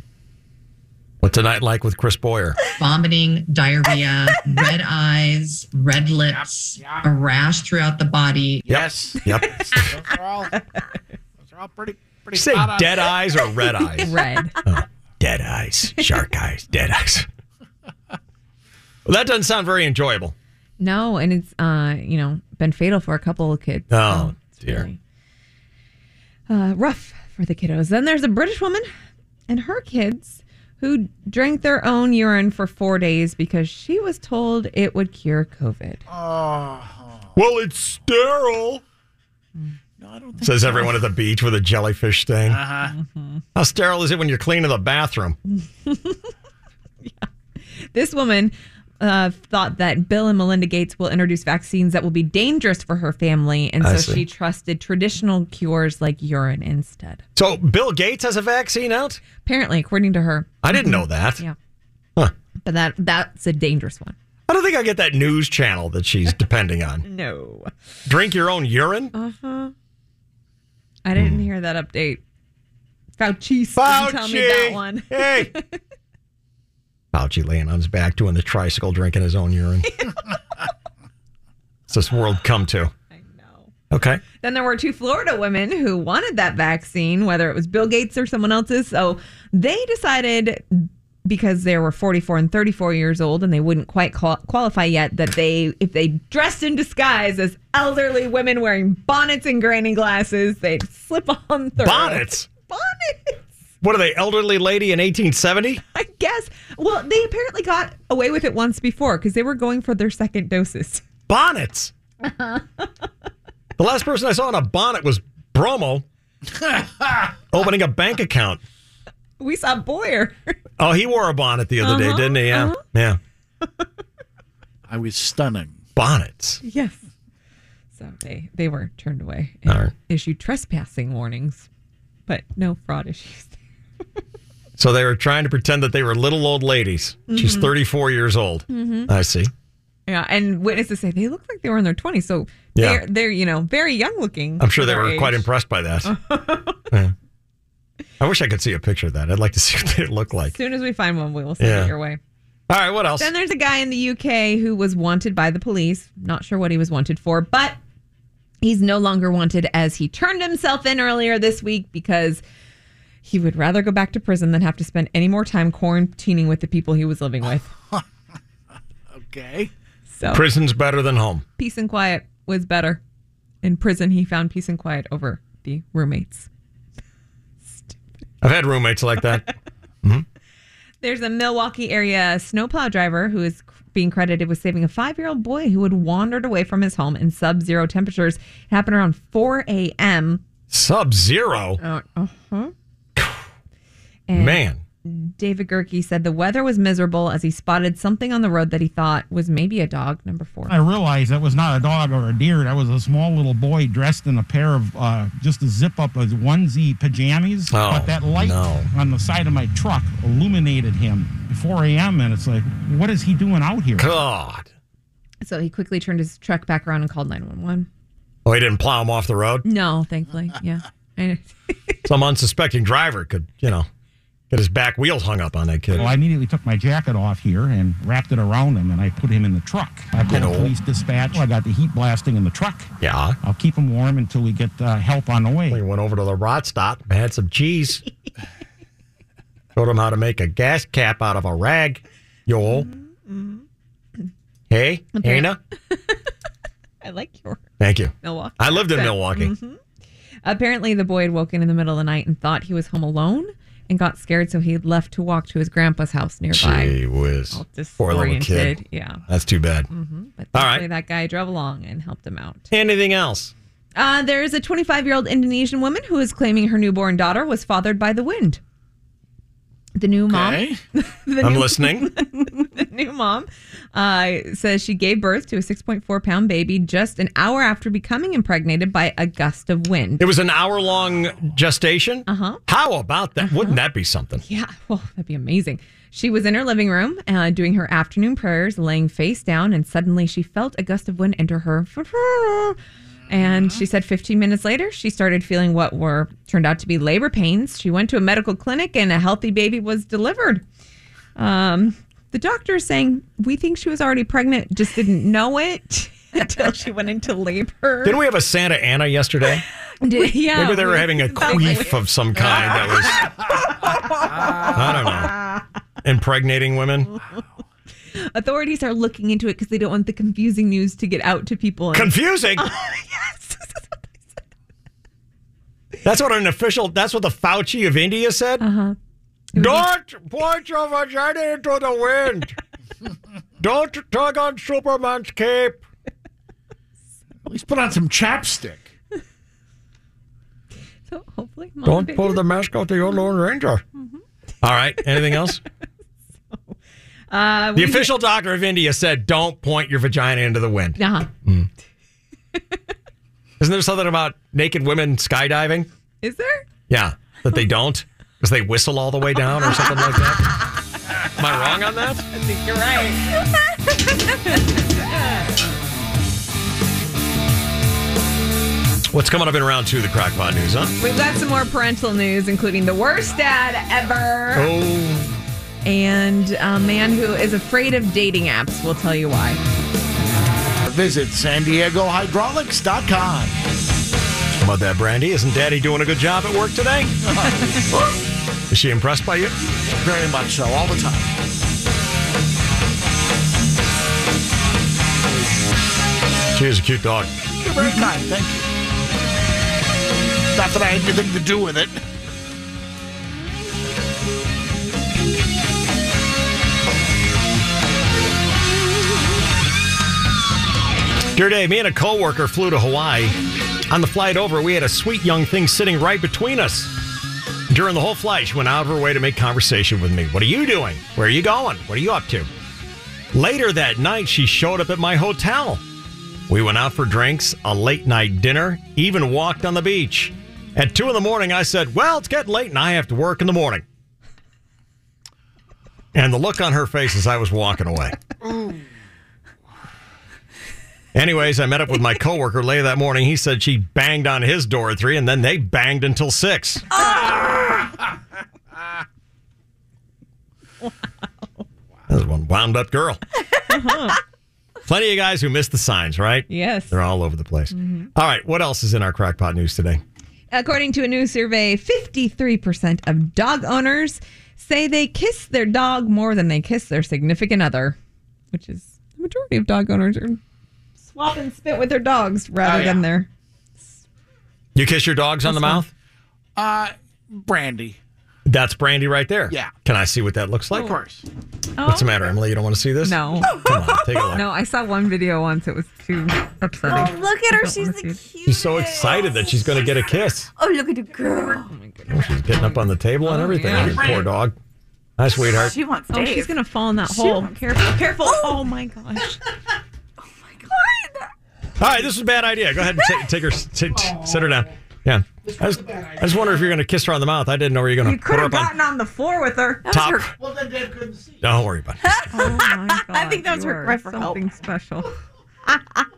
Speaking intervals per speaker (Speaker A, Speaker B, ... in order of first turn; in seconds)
Speaker A: 1.2-2.6, 8.7-9.9, 12.3-17.3, 19.1-20.3, 23.9-24.9, 37.4-38.8, 40.4-42.7, 43.5-45.4, 53.8-54.2, 57.4-59.2, 60.6-61.4, 64.5-67.0, 68.1-69.1, 71.2-71.5, 73.8-75.5, 77.1-80.0, 81.9-82.9, 83.9-84.2, 101.8-102.5, 103.8-105.8, 111.3-111.9, 113.8-116.0, 117.5-118.6, 120.8-123.2, 126.0-126.6, 129.7-129.9, 134.8-139.5, 142.7-143.0, 144.6-146.1, 148.2-150.6, 151.6-151.9, 152.7-153.3, 170.3-171.4, 178.4-179.5, 190.7-191.8, 193.2-193.4, 194.3-194.8, 207.7-208.9, 214.0-214.7, 218.4-219.7, 222.1-223.9, 224.5-226.1, 230.3-230.7, 233.0-233.4, 235.7-238.0, 239.7-242.9, 244.7-245.6, 247.8-249.5, 256.5-259.9, 260.5-260.9, 262.7-263.5, 271.4-272.1, 280.2-284.4, 308.0-309.6, 310.3-313.3, 314.7-315.4, 316.0-317.1, 321.9-322.7, 326.0-328.7, 329.6-332.6, 333.6-335.8, 341.8-343.8, 344.6-345.6, 347.7-351.7, 353.6-355.9, 356.9-360.5, 361.4-362.3, 369.1-370.9, 374.5-375.4, 384.6-387.2, 388.7-389.5, 396.5-397.3, 411.3-413.4, 413.9-416.9, 417.7-422.5, 423.3-425.8, 426.5-433.8, 436.1-438.2, 441.1-446.9, 452.1-453.2, 454.9-460.0, 474.7-475.9, 478.4-481.0, 481.8-484.4, 488.4-490.5, 492.1-494.6, 495.2-495.8, 501.8-508.8, 509.9-510.3, 511.4-512.1
Speaker B: 2.8-8.7
Speaker C: 6.3-7.1, 8.6-9.3, 9.8-10.5, 11.4-13.1, 36.1-37.3, 40.0-41.1, 42.5-42.9, 124.9-125.8, 169.2-169.7, 270.3-270.8, 337.4-338.9, 380.9-383.6, 390.0-391.3, 397.6-398.7, 400.5-402.0, 472.6-473.1, 476.6-478.0, 480.7-481.2, 505.4-506.3, 510.4-511.4
Speaker D: 13.8-14.6, 20.8-25.0, 26.5-28.9, 29.5-36.0, 42.9-43.4, 45.9-46.2, 47.0-47.3, 47.9-57.2, 59.3-61.5, 62.6-64.2, 67.0-67.7, 69.1-69.7, 71.0-72.2, 73.2-75.7, 83.1-83.7, 84.4-103.4, 105.9-111.0, 119.4-120.5, 121.8-122.8, 126.6-127.0, 128.0-131.7, 132.3-133.6, 137.3-137.7, 138.7-139.1, 140.1-145.4, 146.0-146.8, 150.5-152.2, 153.2-157.8, 158.6-162.4, 163.2-167.7, 170.1-170.4, 171.6-173.0, 173.6-176.5, 177.6-178.0, 181.0-190.4, 191.8-192.7, 194.3-200.7, 215.4-217.9, 219.6-222.0, 242.7-243.6, 245.1-245.6, 247.0-247.6, 248.2-249.8, 250.4-256.9, 257.5-259.2, 259.9-262.7, 263.9-268.6, 270.0-280.3, 282.3-282.6, 283.4-283.8, 284.4-292.8, 293.3-300.6, 301.4-308.2, 310.0-312.5, 318.2-323.8, 328.6-328.9, 329.6-329.9, 341.1-342.4, 347.3-348.1, 351.0-351.3, 356.2-356.6, 362.3-363.3, 364.5-365.5, 371.0-374.7, 375.9-379.6, 453.7-454.2, 456.5-456.9, 457.7-458.1, 460.5-468.0, 468.5-470.4, 471.0-473.3, 475.4-475.9, 481.8-482.3, 483.0-488.2, 491.6-494.2, 496.1-499.4, 508.0-509.9, 512.3-515.1
Speaker E: 200.7-214.2, 225.9-235.8
Speaker F: 486.9-489.9, 490.6-491.7, 495.4-496.5, 497.1-497.5, 498.2-498.7, 500.2-501.3, 509.9-510.3, 512.3-514.4